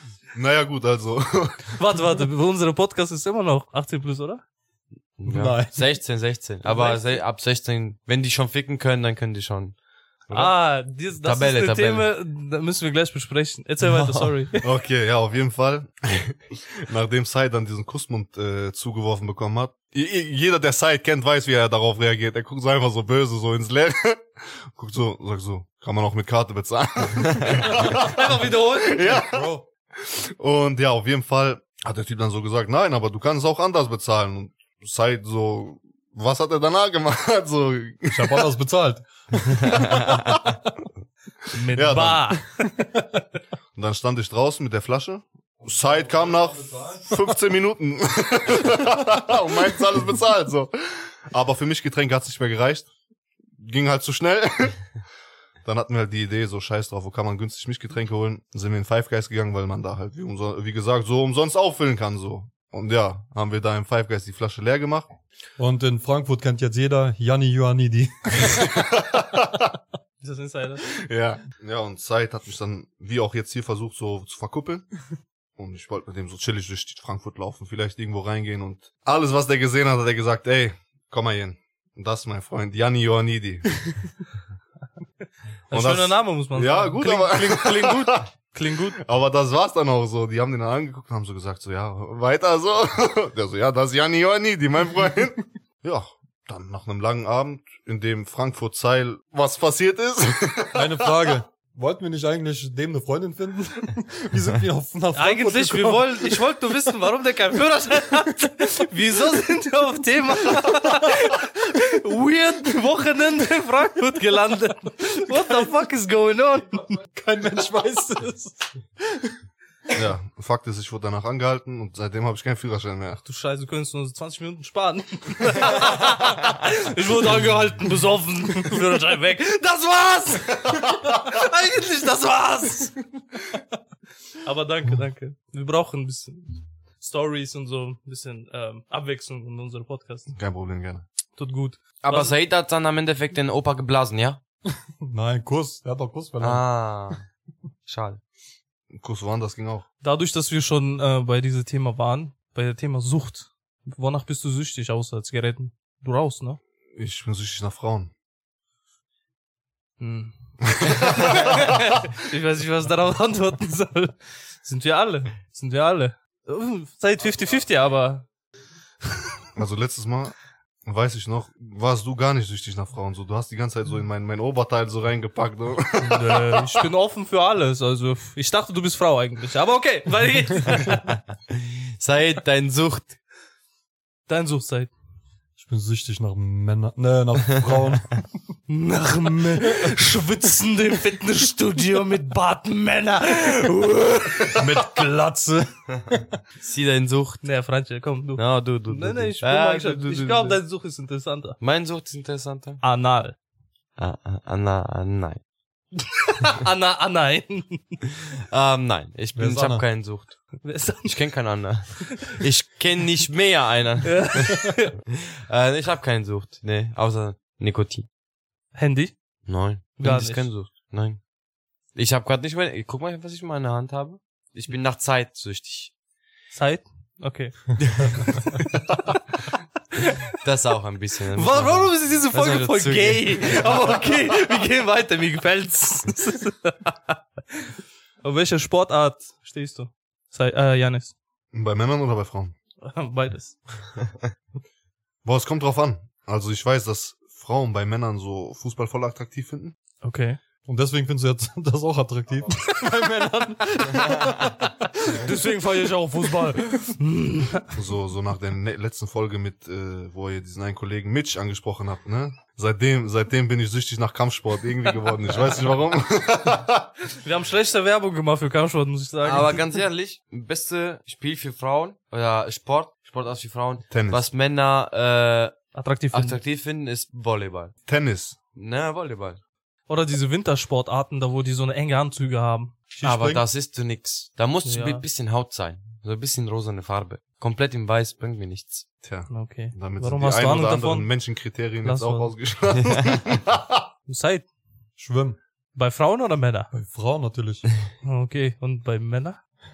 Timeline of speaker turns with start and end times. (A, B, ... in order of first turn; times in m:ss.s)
0:00.3-0:01.8 A
0:01.8-0:04.4 B
0:05.2-0:09.8 C
0:05.2-0:05.8 D
0:06.6-0:07.0 B
0:10.3-0:10.5 C
0:10.3-0:14.7 B
0:11.2-0:12.1 C
0:13.8-0:14.4 D
0:14.6-0:24.2 A
0:24.7-0:38.4 A
0:27.7-0:29.2 B
0:29.1-0:29.6 D
0:38.1-0:40.5 D
0:41.5-0:42.4 B
0:41.7-0:42.4 A
0:42.6-0:43.2 D
0:43.8-0:52.9 A
0:45.6-0:47.3 D
0:53.6-0:54.8 A
0:55.6-1:05.1 A
1:05.6-1:08.7 D
1:08.5-1:09.7 A
1:10.2-1:10.9 B
1:10.9-1:14.9 A
1:15.6-1:23.8 A
1:25.7-1:29.0 B
1:25.7-1:28.3 A
1:29.0-1:41.3 A
1:40.7-1:46.4 D
1:45.1-1:57.0 B
1:55.4-1:55.6 D
1:57.0-1:59.4 D
1:59.9-2:03.2 A
2:03.2-2:13.0 B
2:14.4-2:20.3 B
2:20.3-2:21.0 A
2:21.4-2:22.3 B
2:22.0-2:24.4 C
2:25.0-2:27.2 D
2:26.4-2:27.2 C
2:27.9-2:28.2 C
2:28.9-2:29.8 A
2:30.0-2:36.6 B
2:37.0-2:38.1 A
2:40.0-2:40.3 B
2:40.7-2:41.8 A
2:40.8-2:48.2 B
2:49.6-2:50.3 A
2:50.8-2:56.9 A
2:56.0-3:01.1 B
3:02.0-3:03.2 C
3:04.3-3:04.9 B
3:05.6-3:08.2 D
3:08.7-3:15.0 B
3:14.5-3:16.4 D
3:16.6-3:17.4 C
3:17.4-3:21.6 B
3:18.4-3:20.6 C
3:21.6-3:22.8 C
3:22.8-3:23.4 B
3:24.0-3:25.4 C
3:26.3-3:28.0 B
3:28.3-3:30.4 C
3:29.3-3:29.8 D
3:30.6-3:31.2 B
3:31.0-3:38.1 C
3:34.0-3:34.9 B
3:38.7-3:39.1 B
3:39.5-3:41.2 C
3:40.0-3:40.5 B
3:41.9-3:45.9 C
3:46.5-3:48.5 B
3:47.8-3:48.6 C
3:50.4-3:53.8 C
3:51.3-3:57.6 B
3:58.2-4:01.1 B
4:01.5-4:02.5 A
4:02.8-4:03.6 B
4:05.2-4:09.8 A
4:10.0-4:10.4 B
4:10.6-4:15.4 D
4:15.2-4:17.8 B
4:17.7-4:26.9 A
4:27.2-4:29.7 B
4:29.2-4:35.6 C
4:33.9-4:34.2 A
4:35.7-4:36.4 B
4:36.1-4:37.7 C
4:37.9-4:38.4 A
4:38.5-4:39.4 C
4:39.9-4:42.8 B
4:42.9-4:43.4 D
4:43.0-4:48.8 C
4:44.6-4:45.0 B
4:49.0-4:53.8 A
4:49.3-4:51.1 B
4:51.8-4:52.3 B
4:54.1-4:54.4 B
4:55.0-4:55.4 D
4:55.7-4:56.7 B
4:56.7-4:57.7 D
4:58.0-4:59.4 B